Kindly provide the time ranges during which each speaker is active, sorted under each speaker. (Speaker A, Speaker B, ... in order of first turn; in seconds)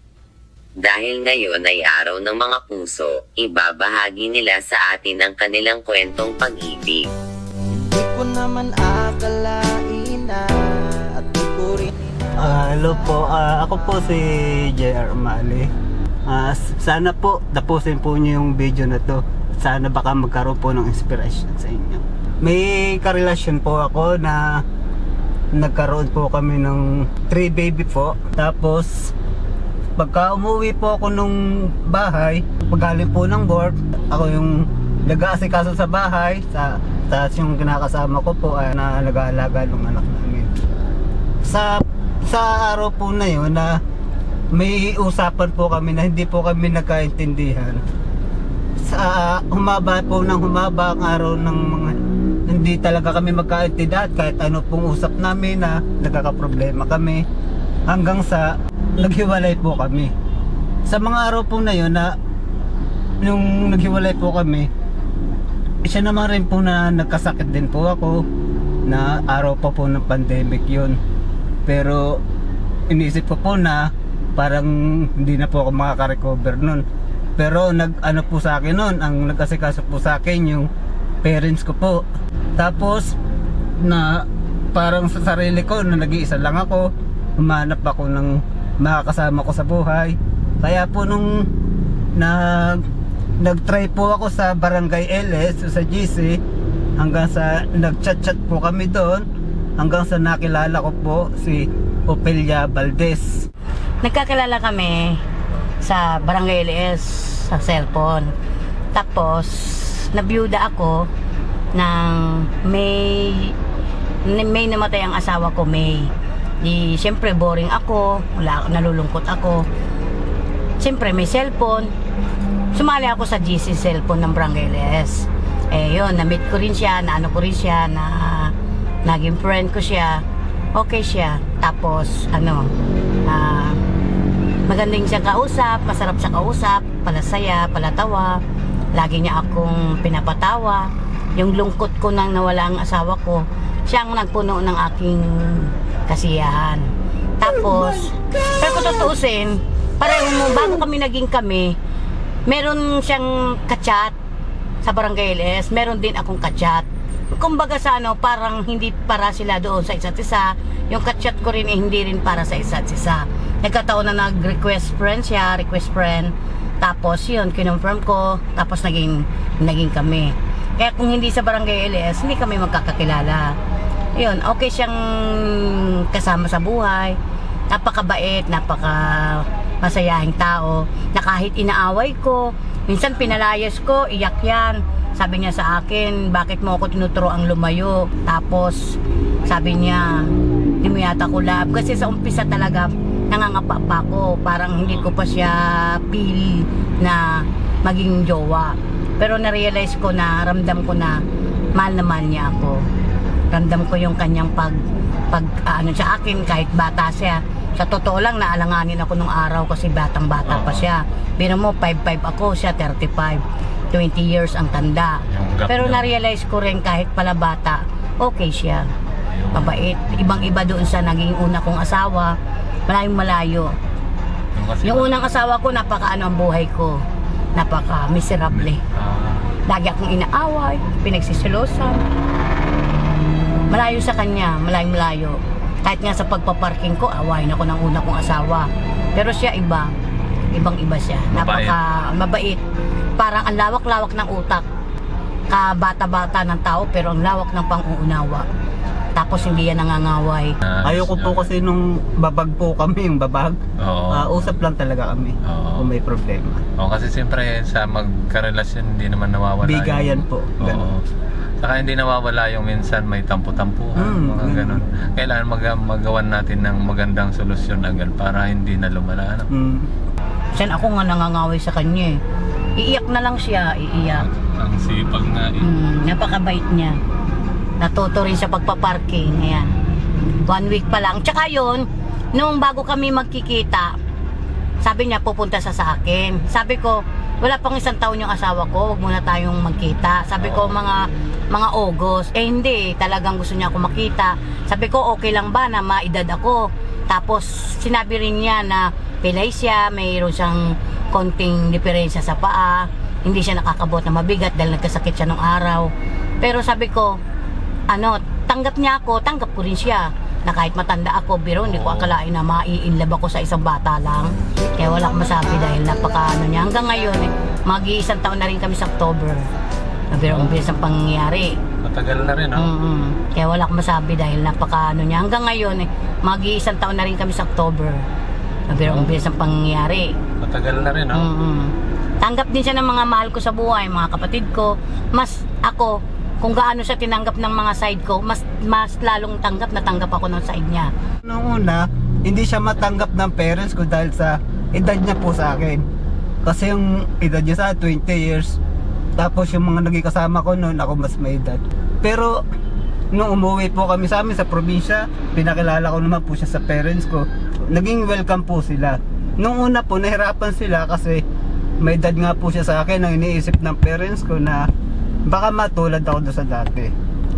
Speaker A: 0.8-7.1
Speaker B: 7.8-14.1, 314.5-317.6
Speaker C: 12.4-15.7, 16.3-24.6, 25.5-29.1, 30.0-40.5, 41.4-43.8, 44.5-47.8, 48.8-51.9, 52.5-57.2, 57.9-60.1, 60.9-62.1, 63.2-64.7, 65.8-68.2, 68.9-71.0, 71.7-72.2, 72.9-76.8, 77.4-80.7, 81.2-82.0, 82.6-83.1, 83.8-91.5, 92.2-92.8, 93.4-96.4, 97.0-99.2, 99.8-103.4, 147.5-149.1, 150.5-150.8, 250.8-253.6, 254.1-256.6, 259.6-260.9, 263.9-264.8, 269.5-269.9, 341.2-345.8, 346.4-348.6, 349.2-352.4, 353.1-361.2, 361.8-364.6, 365.2-366.9
Speaker D: 104.0-105.2, 105.8-108.3, 108.9-111.1, 111.7-113.5, 114.2-119.6, 120.8-121.9, 122.7-128.5, 129.0-130.2, 130.8-132.7, 133.2-133.8, 134.7-138.4, 138.9-146.8, 147.4-151.7, 152.5-154.1, 154.8-173.5, 174.2-177.2, 177.7-190.3, 190.8-201.2, 201.8-202.8, 203.5-204.8, 205.3-213.4, 213.9-218.9, 219.5-222.3, 222.9-223.7, 224.8-227.0, 227.6-228.8, 229.7-232.0, 233.7-239.9, 240.5-242.6, 243.2-244.6, 245.5-248.4, 249.2-250.5, 270.5-272.1, 272.8-274.2, 275.6-277.0, 277.8-279.7, 280.5-283.9, 284.8-305.9, 306.4-307.1, 307.9-319.4, 320.1-321.5, 322.6-328.0, 328.7-330.1, 331.1-340.9
Speaker E: 210.4-210.9, 215.3-216.1, 219.3-219.8, 224.5-225.2, 228.6-229.5, 241.3-241.8, 250.6-251.5, 253.8-254.5, 255.5-255.9, 256.8-261.0, 261.6-269.5, 274.2-275.7, 290.4-290.8, 311.6-312.1, 320.2-320.5, 321.8-322.7, 328.8-329.1, 330.4-331.3